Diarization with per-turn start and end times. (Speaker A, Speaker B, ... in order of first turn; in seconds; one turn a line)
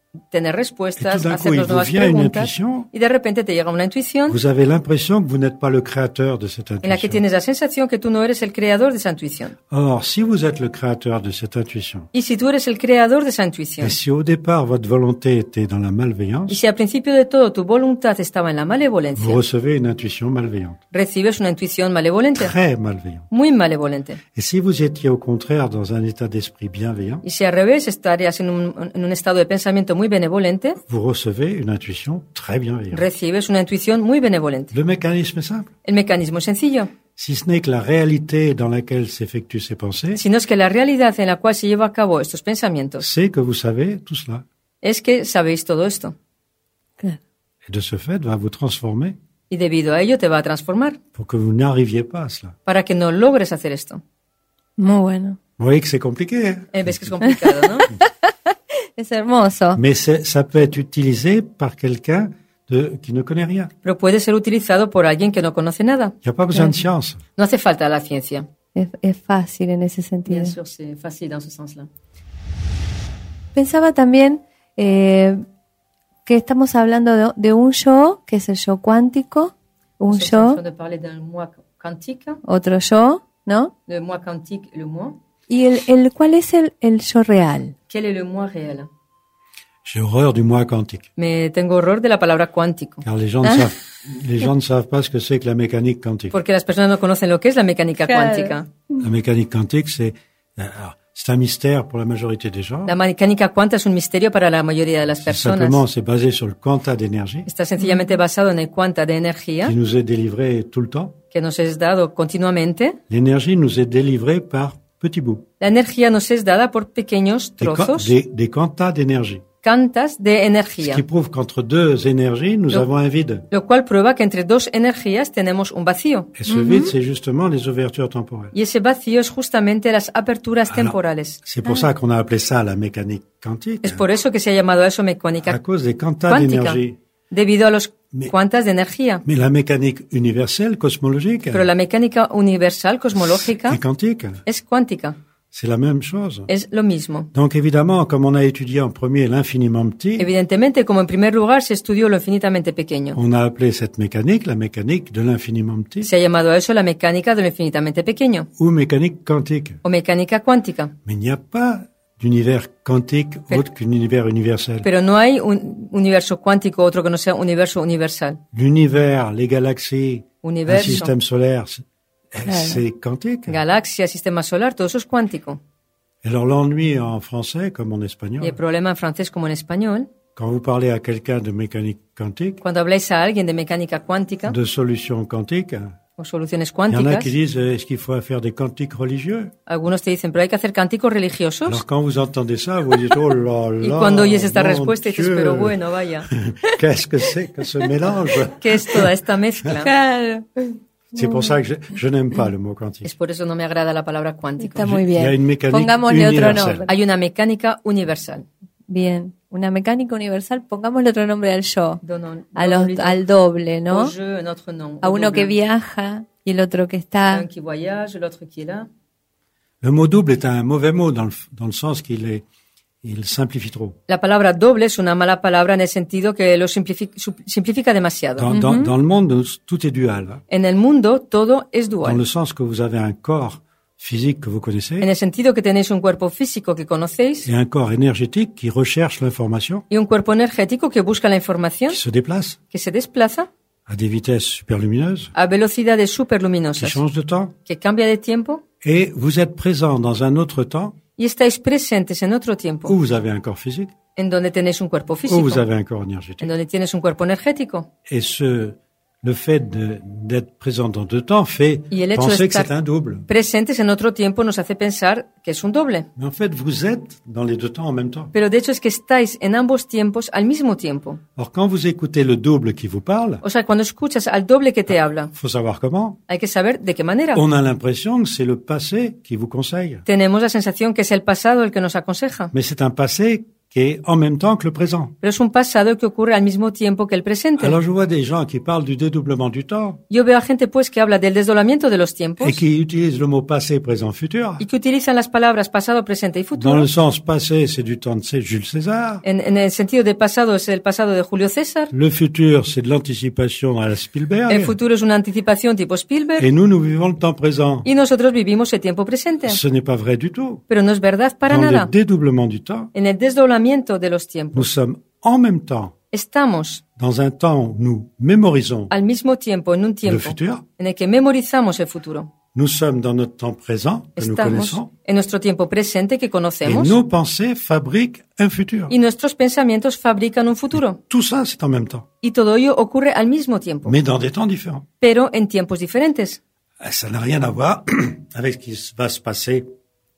Speaker A: 0.3-4.4
Speaker B: 1.0-2.9
Speaker B: 4.3-7.2
Speaker A: 6.8-9.6
Speaker B: 9.7-12.1
Speaker A: 12.1-14.0
Speaker B: 13.8-16.6
Speaker A: 16.5-19.4
Speaker B: 19.1-20.8
Speaker A: 20.9-22.5
Speaker B: 22.4-23.3
Speaker A: 23.3-24.2
Speaker B: 24.3-27.2
Speaker A: 27.2-30.8
Speaker B: 30.8-33.1
Speaker A: 32.9-34.7
Speaker B: 34.7-35.7
Speaker A: 35.9-36.9
Speaker B: 37.2-40.2
Speaker A: 40.1-43.1
Speaker B: 43.0-44.5
Speaker A: 44.8-46.1
Speaker B: 47.7-49.2
Speaker A: 49.5-51.0
Speaker B: 51.1-52.6
Speaker A: 52.7-54.0
Speaker C: 54.8-55.4
Speaker B: 55.6-57.3
Speaker A: 56.7-57.9
Speaker C: 58.0-58.3
Speaker C: 59.0-59.8
Speaker B: 59.8-63.7
Speaker A: 63.8-66.2
Speaker B: 66.2-67.2
Speaker C: 66.5-66.8
Speaker A: 67.4-68.5
Speaker C: 68.8-70.5
Speaker A: 70.3-71.9
Speaker C: 73.5-75.4
Speaker C: 76.3-80.6
Speaker A: 80.1-82.4
Speaker C: 82.4-83.7
Speaker A: 83.9-85.2
Speaker C: 85.5-87.7
Speaker A: 87.9-88.9
Speaker B: 89.8-91.1
Speaker A: 91.2-93.0
Speaker B: 93.0-96.3
Speaker C: 93.4-93.7
Speaker A: 96.3-98.7
Speaker C: 98.1-98.5
Speaker B: 99.0-103.0
Speaker A: 102.9-105.8
Speaker B: 105.2-107.5
Speaker A: 107.5-109.7
Speaker C: 107.8-108.1
Speaker B: 109.6-111.2
Speaker A: 111.3-113.0
Speaker B: 113.1-115.5
Speaker A: 115.6-118.1
Speaker B: 117.6-119.4
Speaker A: 119.6-121.0
Speaker B: 120.8-123.5
Speaker A: 123.5-126.3
Speaker B: 126.3-128.5
Speaker C: 126.5-126.9
Speaker A: 128.5-131.4
Speaker B: 130.7-134.1
Speaker A: 133.8-135.6
Speaker B: 135.5-137.0
Speaker A: 136.3-136.8
Speaker A: 137.3-139.2
Speaker B: 139.2-141.7
Speaker A: 141.5-143.8
Speaker B: 143.3-144.4
Speaker A: 144.4-145.2
Speaker B: 145.5-146.5
Speaker A: 146.5-147.3
Speaker B: 147.3-150.3
Speaker A: 150.2-153.2
Speaker B: 153.1-156.1
Speaker A: 156.0-158.5
Speaker B: 158.6-159.8
Speaker A: 159.8-160.9
Speaker B: 161.1-164.9
Speaker A: 164.8-168.4
Speaker B: 168.5-173.6
Speaker A: 170.4-171.1
Speaker C: 172.5-172.8
Speaker A: 173.5-175.6
Speaker B: 176.2-178.6
Speaker A: 178.4-180.1
Speaker B: 180.4-182.6
Speaker A: 182.6-184.6
Speaker B: 184.5-186.0
Speaker A: 186.2-187.3
Speaker B: 186.9-189.5
Speaker A: 189.7-191.8
Speaker B: 191.7-199.1
Speaker A: 193.8-196.3
Speaker A: 198.5-199.9
Speaker C: 199.8-201.6
Speaker B: 201.1-203.1
Speaker A: 203.0-205.0
Speaker C: 204.6-206.9
Speaker B: 204.8-206.8
Speaker A: 206.9-208.4
Speaker C: 208.9-212.0
Speaker A: 212.0-213.2
Speaker C: 212.6-214.1
Speaker A: 213.9-215.5
Speaker C: 215.0-217.5
Speaker A: 217.3-218.9
Speaker B: 219.8-222.4
Speaker B: 223.0-224.0
Speaker A: 224.1-228.5
Speaker B: 228.4-230.4
Speaker C: 228.5-228.9
Speaker A: 230.5-232.2
Speaker B: 232.0-235.1
Speaker A: 235.0-237.5
Speaker B: 237.4-239.8
Speaker A: 239.9-242.0
Speaker B: 241.9-242.6
Speaker A: 242.7-243.5
Speaker B: 243.9-245.3
Speaker A: 245.3-247.0
Speaker B: 246.8-247.5
Speaker A: 247.7-248.6
Speaker B: 248.8-251.0
Speaker A: 251.2-252.9
Speaker B: 252.9-253.9
Speaker A: 254.2-255.7
Speaker B: 255.3-256.5
Speaker A: 256.4-257.9
Speaker B: 258.1-263.3
Speaker A: 261.9-262.7
Speaker A: 263.3-266.1
Speaker B: 266.2-268.3
Speaker A: 268.3-271.2
Speaker B: 271.4-273.4
Speaker A: 273.4-275.3
Speaker B: 275.3-276.2
Speaker A: 276.3-277.4
Speaker B: 277.3-280.1
Speaker A: 280.1-282.5
Speaker B: 282.5-285.1
Speaker A: 285.2-287.8
Speaker B: 287.6-290.0
Speaker A: 290.1-292.6
Speaker B: 292.4-294.6
Speaker A: 294.6-296.9
Speaker B: 296.6-299.2
Speaker A: 299.2-301.9
Speaker B: 301.9-304.8
Speaker A: 304.5-306.5
Speaker B: 306.4-307.9
Speaker A: 307.8-309.6
Speaker B: 309.4-310.6
Speaker A: 310.7-311.9
Speaker B: 311.5-312.9
Speaker A: 312.9-314.7
Speaker B: 314.5-315.9
Speaker A: 316.1-316.8
Speaker B: 317.0-318.9
Speaker A: 318.9-322.3
Speaker B: 320.0-320.6
Speaker B: 322.5-324.9
Speaker A: 324.2-327.0
Speaker B: 326.6-328.9
Speaker A: 328.9-331.0
Speaker B: 330.7-332.1
Speaker A: 332.2-334.0
Speaker B: 333.9-334.9
Speaker A: 335.0-336.4
Speaker B: 336.8-339.7